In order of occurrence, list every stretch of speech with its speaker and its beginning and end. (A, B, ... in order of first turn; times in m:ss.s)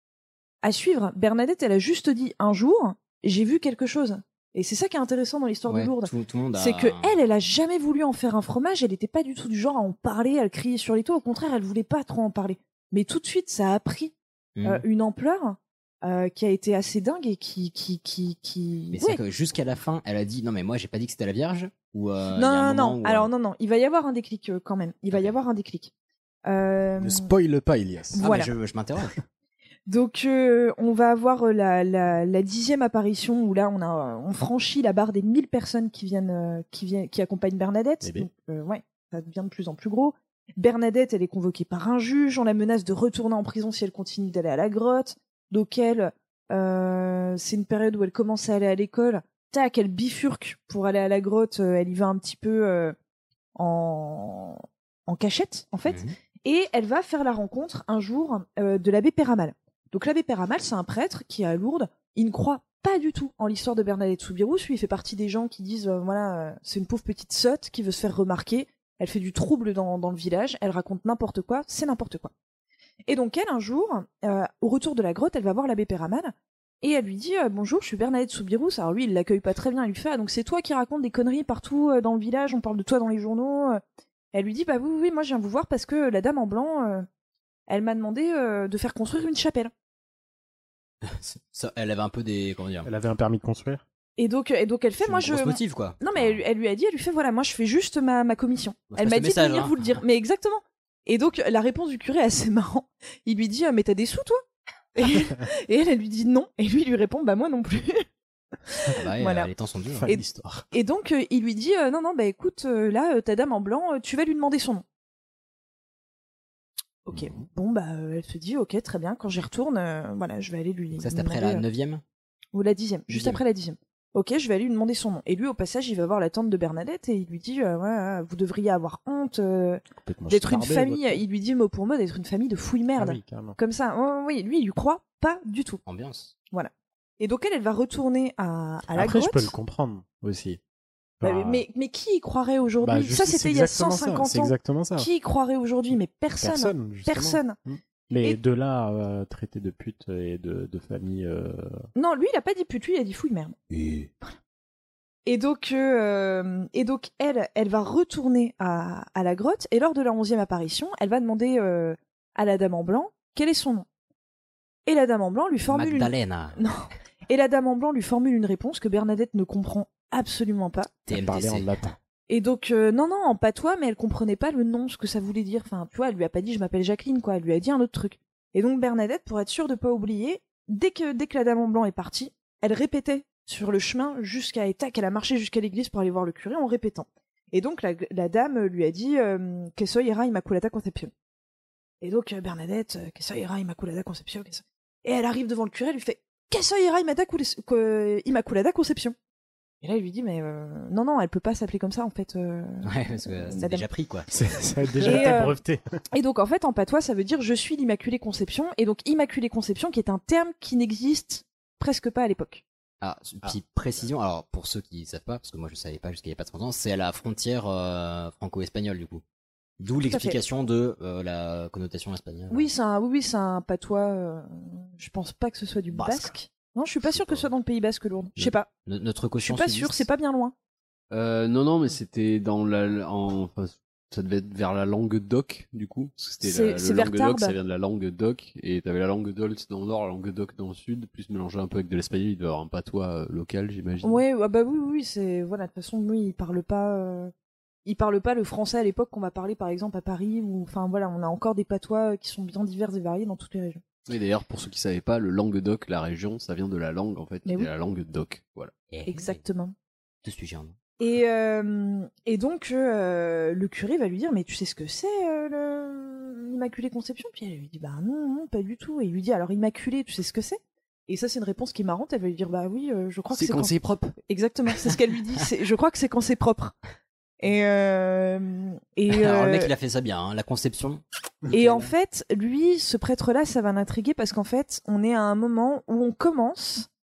0:00.6-0:19.2 A
0:05.7-0:07.2 B
0:14.6-0:14.8 B
0:18.9-0:23.3 B
0:22.4-0:25.9 A
0:26.5-0:27.3 A
0:27.0-0:28.3 C
0:28.2-0:28.5 A
0:28.2-0:29.2 B
0:29.9-0:53.0 A
0:38.0-0:38.3 C
0:53.6-1:12.3 A
0:55.9-0:56.2 B
1:13.1-1:23.8 A
1:24.3-1:27.1 A
1:27.7-1:29.7 A
1:31.0-1:32.9 B
1:32.8-1:33.8 C
1:34.2-1:44.4 A
1:35.0-1:36.4 B
1:38.9-1:40.0 B
1:45.0-1:48.0 A
1:48.7-1:49.5 A
1:48.9-1:50.1 B
1:50.0-1:50.7 C
1:50.1-1:54.8 A
1:57.1-2:01.6 A
2:01.0-2:02.0 B
2:02.5-2:15.8 A
2:10.0-2:11.2 C
2:13.0-2:13.6 C
2:15.9-2:16.3 B
2:16.5-2:19.5 A
2:18.9-2:20.6 C
2:21.2-2:21.6 C
2:21.2-2:27.6 A
2:22.8-2:25.1 C
2:26.4-2:31.8 C
2:32.0-2:33.6 A
2:33.7-2:34.1 C
2:35.3-2:43.9 A
2:44.9-2:50.9 A
2:45.7-2:46.6 B
2:51.1-2:51.9 B
2:51.1-2:52.0 C
2:52.3-3:11.1 A
3:12.0-3:19.2 A
3:19.8-3:23.8 A
3:22.8-3:24.3 B
3:24.3-3:25.8 C
3:25.0-3:25.6 A
3:26.1-3:32.6 A
3:33.0-3:39.2 B
3:39.8-3:42.7 B
3:40.0-3:40.4 A
3:42.5-3:48.7 A
3:45.9-3:46.3 B
3:47.1-3:47.5 B
3:48.4-3:50.0 B
3:49.4-3:50.5 A
3:51.1-4:04.2 D
3:56.4-3:57.6 A
4:04.0-4:07.3 A
4:07.9-4:13.8 A
4:14.1-4:18.7 D
4:17.5-4:17.7 A
4:18.9-4:19.4 B
4:19.1-4:19.7 A
4:20.2-4:20.8 B
4:21.0-4:36.8 A
4:33.3-4:34.1 D
4:37.4-4:39.7 A
4:39.1-4:41.9 B
4:41.5-4:46.9 A